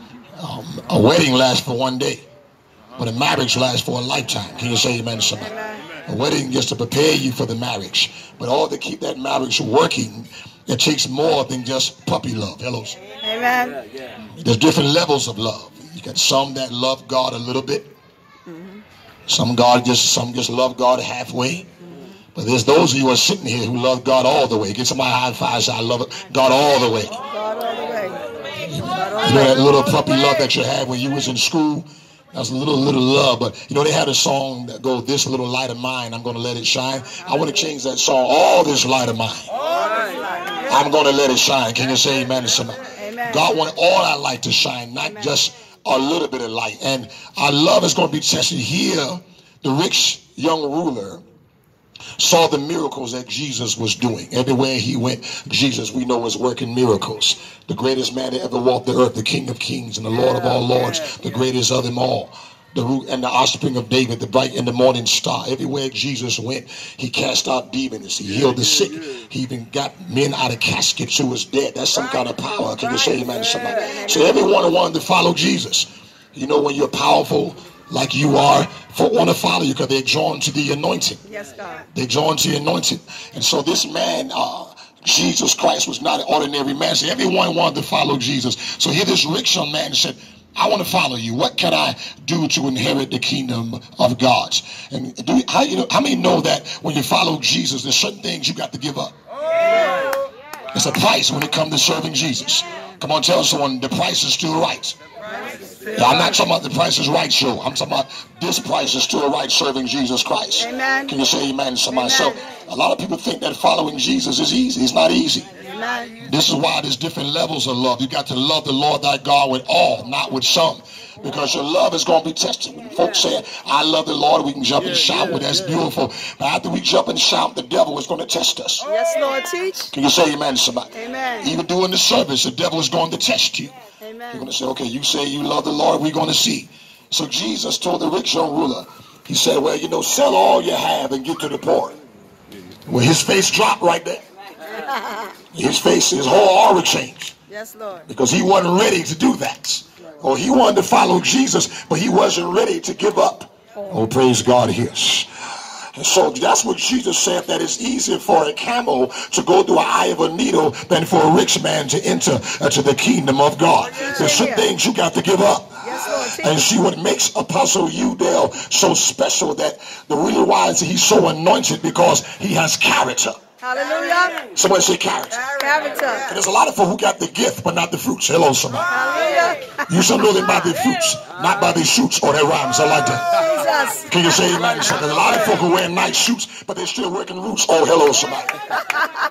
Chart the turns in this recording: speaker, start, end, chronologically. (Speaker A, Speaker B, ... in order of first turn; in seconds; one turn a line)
Speaker A: 0.4-2.3
Speaker A: 3.0-5.5
Speaker A: 6.1-13.0
Speaker B: 13.2-13.8
Speaker A: 14.4-17.9
Speaker B: 18.5-18.8
Speaker A: 19.3-21.7
Speaker A: 22.4-27.2
Speaker B: 27.3-28.2
Speaker A: 28.6-39.5
Speaker B: 28.9-29.8
Speaker B: 39.8-40.6
Speaker A: 40.7-51.2
Speaker B: 43.0-43.4
Speaker A: 52.2-81.2
Speaker B: 81.3-81.9
Speaker A: 81.9-99.2
Speaker A: 100.7-105.0
Speaker A: 105.9-115.5
Speaker B: 110.6-111.1
Speaker B: 112.0-112.4
Speaker B: 115.6-116.2
Speaker A: 116.2-128.9
Speaker B: 128.8-129.9
Speaker A: 129.9-133.8
Speaker B: 130.9-131.5
Speaker B: 134.0-134.5
Speaker A: 134.3-142.0
Speaker A: 142.9-144.2
Speaker B: 144.8-145.3
Speaker A: 145.5-147.3
Speaker B: 147.5-148.1
Speaker A: 148.1-155.3
Speaker A: 155.9-173.4
Speaker B: 164.0-164.7
Speaker B: 165.8-166.6
Speaker B: 173.6-174.5
Speaker A: 174.5-175.5
Speaker B: 175.4-176.3
Speaker A: 176.3-178.9
Speaker B: 178.9-179.8
Speaker A: 179.9-183.4
Speaker B: 183.4-184.1
Speaker A: 184.1-188.6